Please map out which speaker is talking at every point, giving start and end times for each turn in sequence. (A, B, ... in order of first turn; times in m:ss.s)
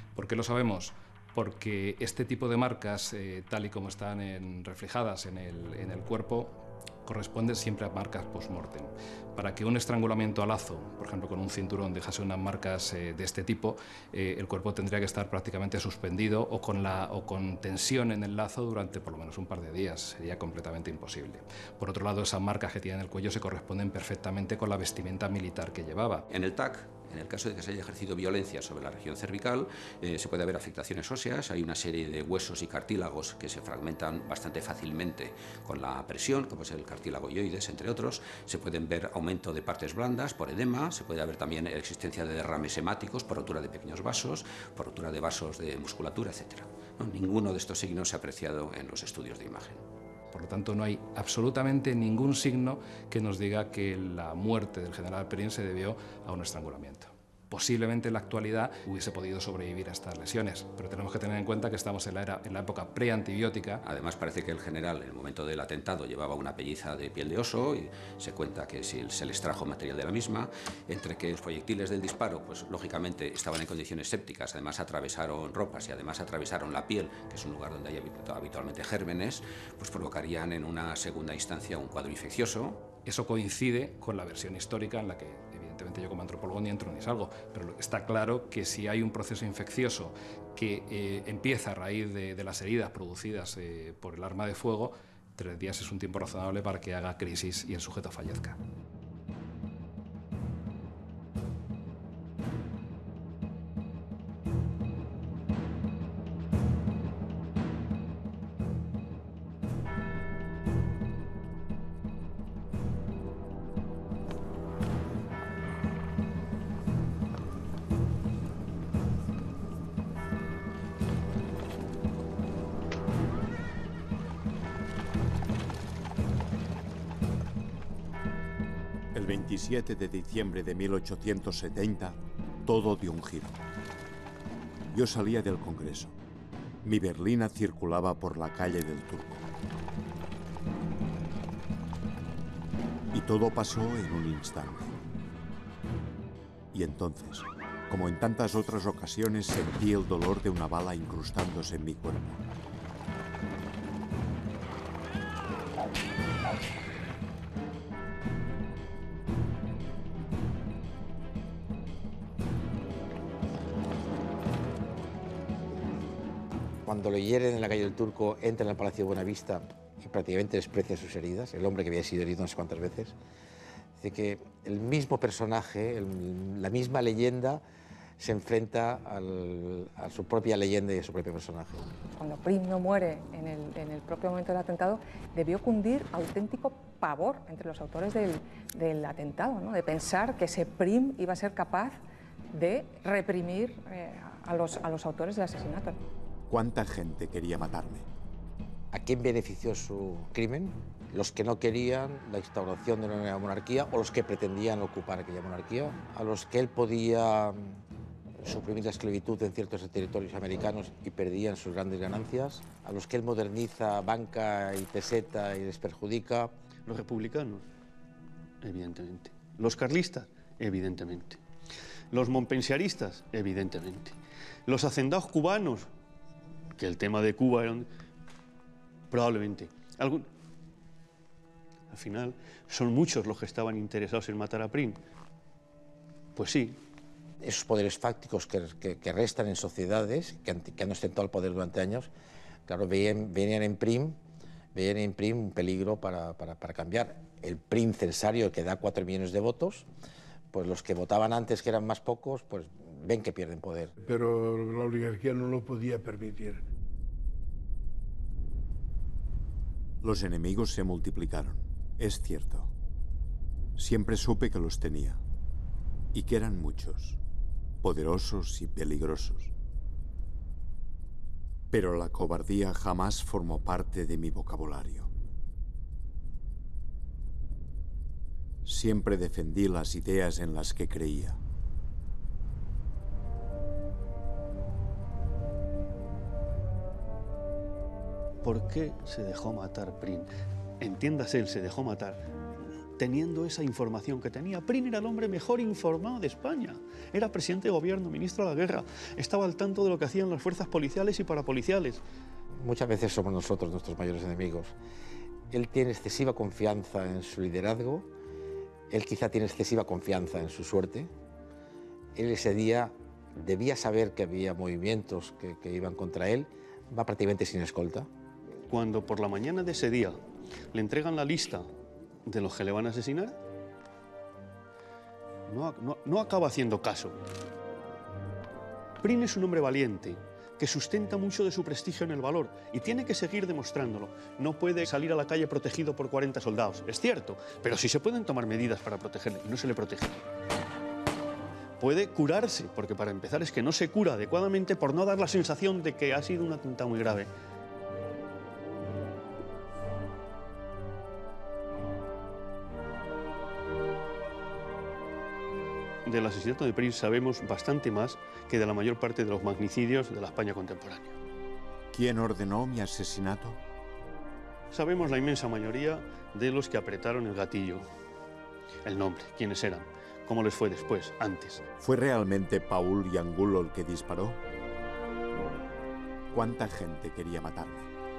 0:00.1-0:26.3 A
0:26.3-0:49.8 B
0:50.3-1:03.8 A
1:03.8-1:22.9 B
1:23.0-1:38.6 A
2:09.1-2:13.6 C
2:14.9-2:16.1 C
2:16.8-2:19.4 C
2:23.1-2:25.0 C
2:26.7-2:32.4 C
2:46.8-2:53.1 D
2:54.0-2:57.6 D
2:58.2-3:01.9 D
3:02.2-3:12.0 E
3:12.5-3:16.0 E
3:16.5-3:18.1 C
3:18.9-3:27.8 D
3:28.4-3:36.5 D
3:36.9-3:37.7 F
3:38.6-3:41.4 F
3:42.1-3:44.2 F
3:44.7-3:45.9 F
3:46.8-3:47.9 F
3:49.1-3:50.3 F
3:51.9-3:55.0 F
3:56.4-3:56.8 F
3:57.4-4:02.1 D
4:02.7-4:04.2 D
4:04.7-4:09.9 D
4:10.5-4:13.9 D
4:14.0-4:16.6 G
4:20.0-4:22.7 C
4:23.8-4:25.2 C
4:26.1-4:27.2 C
4:27.8-4:29.5 C
4:31.7-4:35.1 C
4:38.6-4:41.4 C
4:48.4-4:50.3 F
4:50.8-4:52.2 F
4:53.0-5:02.0 F
5:02.6-5:04.7 D
5:05.5-5:08.1 D
5:08.9-5:11.1 D
5:12.1-5:18.1 D
5:18.7-5:20.2 F
5:20.7-5:21.7 F
5:22.2-5:23.4 F
5:25.5-5:27.2 F
5:29.0-5:40.2 F
5:41.8-5:47.3 F
5:56.0-6:01.2 F
6:01.9-6:03.6 C
6:04.7-6:07.8 F
6:08.8-6:11.6 F
6:11.8-6:14.4 C
6:16.3-6:17.9 C